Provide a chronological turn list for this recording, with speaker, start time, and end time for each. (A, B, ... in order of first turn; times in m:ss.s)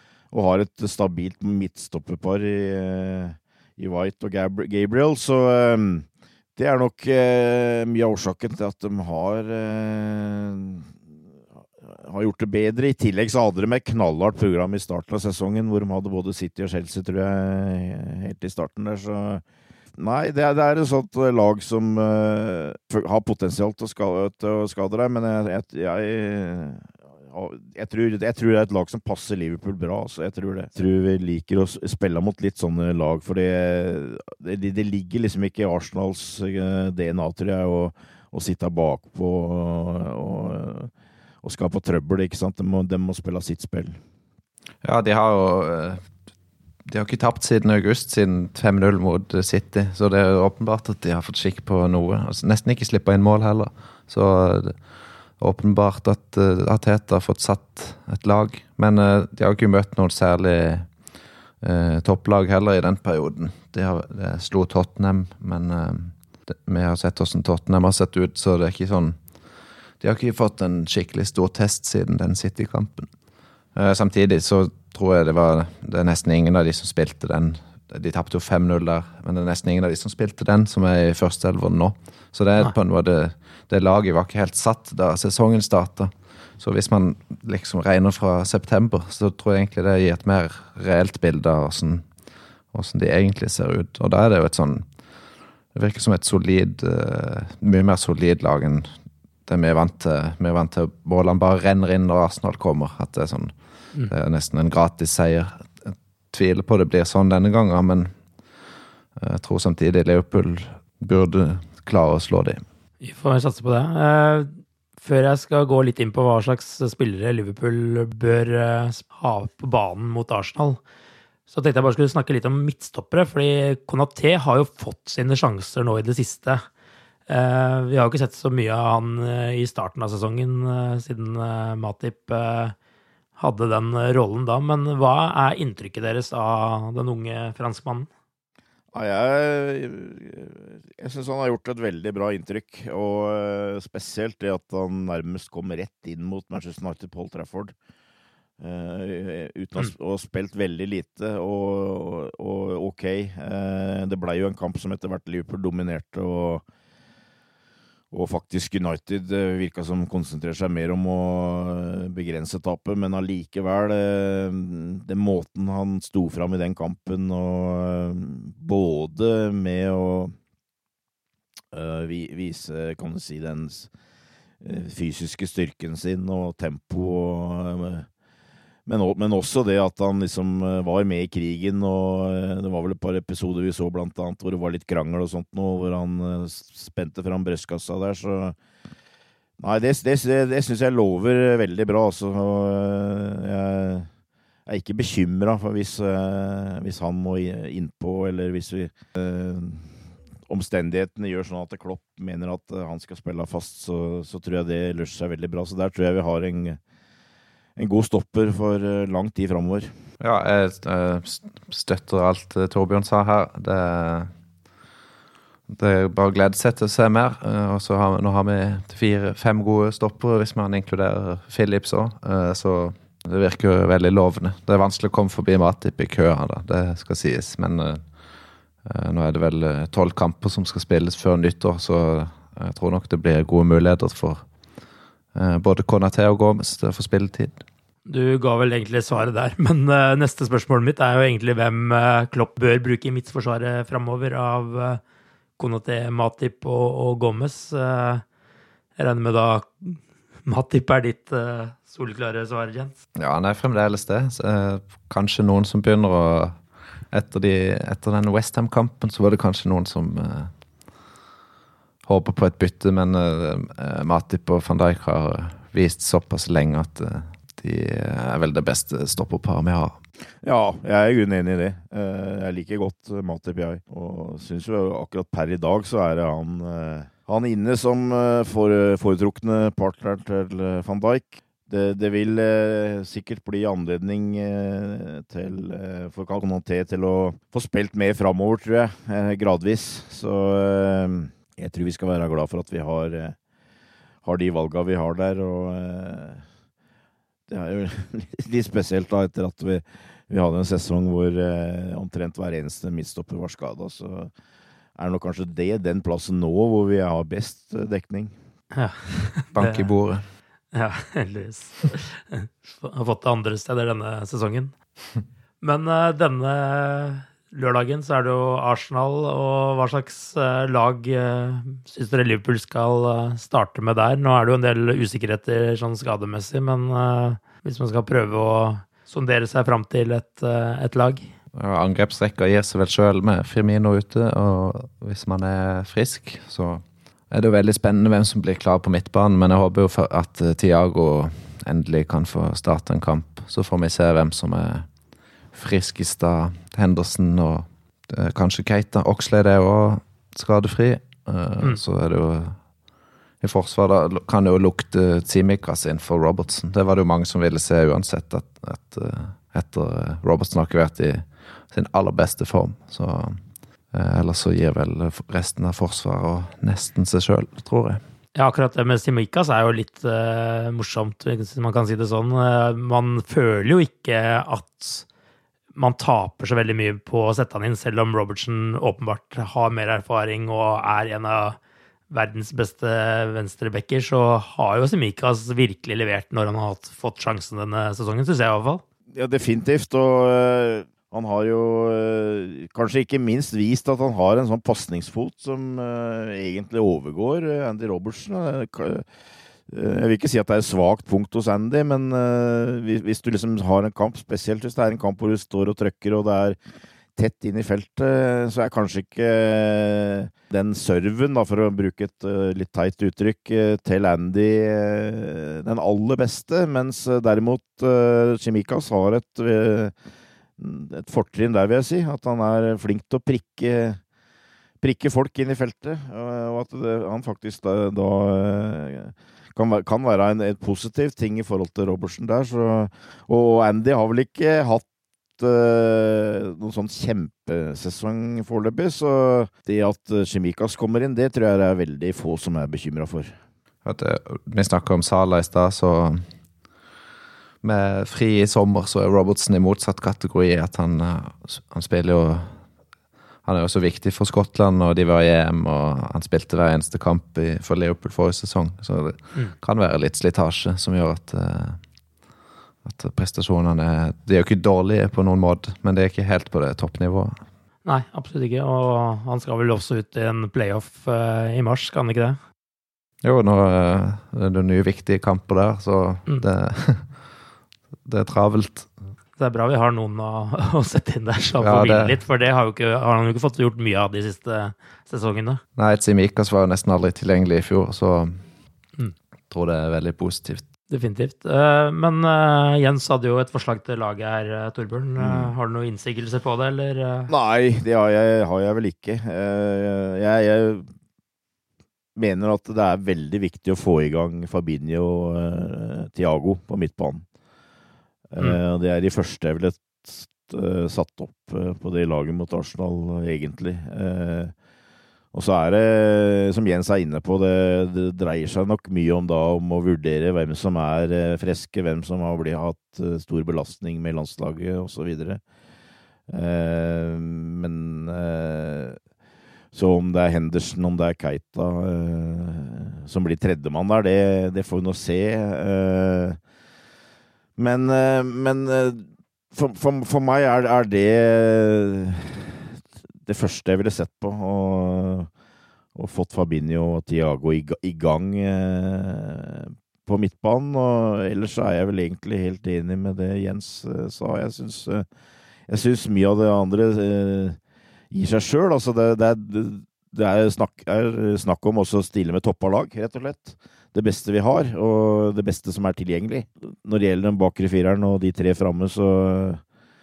0:00.3-0:10.9 A
0:11.9-0:19.4 A
0:20.0-0:40.9 A
0:41.4-0:44.0 A
0:44.8-0:46.0 B
0:46.8-0:54.8 B
0:55.4-1:00.9 B
1:01.6-1:09.2 B
1:10.0-1:13.1 B
1:13.8-1:32.1 B
1:32.7-1:34.9 B
1:35.7-1:38.9 B
1:39.5-1:43.5 B
1:44.1-1:48.1 B
1:49.2-1:52.6 B
1:53.0-2:00.8 C
2:01.5-2:06.6 C
2:07.3-2:12.8 C
2:13.4-2:18.1 C
2:18.9-2:27.7 A
2:28.6-2:36.6 A
2:38.1-2:50.4 A
2:51.7-2:53.9 A
2:54.6-2:58.1 A
2:58.9-3:08.6 A
3:09.6-3:14.1 A
3:14.7-3:19.9 A
3:20.5-3:26.8 A
3:27.8-3:29.9 A
3:30.2-3:34.3 B
3:35.7-3:48.0 B
3:48.8-3:54.4 B
3:55.3-3:57.6 B
3:58.1-4:05.0 C
4:05.6-4:08.2 C
4:09.0-4:13.0 C
4:13.2-4:16.6 B
4:17.1-4:20.5 B
4:22.0-4:30.0 B
4:30.4-4:53.4 A
4:54.2-4:56.4 A
4:57.5-5:04.3 A
5:05.0-5:08.3 A
5:08.7-5:09.9 C
5:09.5-5:10.3 B
5:10.7-5:14.7 C
5:15.6-5:31.3 C
5:31.5-5:44.9 B
5:45.5-5:52.6 B
5:53.4-6:03.4 B
6:03.9-6:08.0 B
6:08.4-6:15.0 C
6:15.8-6:21.6 C
6:22.1-6:28.8 C
6:29.1-6:39.0 A
6:39.7-6:46.6 A
6:47.2-6:59.9 A
7:00.6-7:04.0 A
7:04.8-7:14.8 A
7:15.4-7:23.3 A
7:23.8-7:26.2 B
7:27.6-7:32.6 B
7:33.4-7:41.8 B
7:42.8-7:47.4 B
7:47.8-7:52.4 C
7:53.2-7:57.1 B
7:58.0-7:58.9 B
7:59.4-8:05.6 C
8:01.6-8:02.2 B
8:05.8-8:08.4 B
8:09.5-8:10.7 B
8:10.9-8:17.3 C
8:17.3-8:20.9 A
8:22.2-8:27.2 A
8:28.3-8:34.5 A
8:35.3-8:45.4 A
8:46.3-8:49.0 A
8:49.7-8:56.4 A
8:57.6-9:05.3 A
9:06.0-9:15.1 A
9:15.7-9:17.6 A
9:18.1-9:29.6 A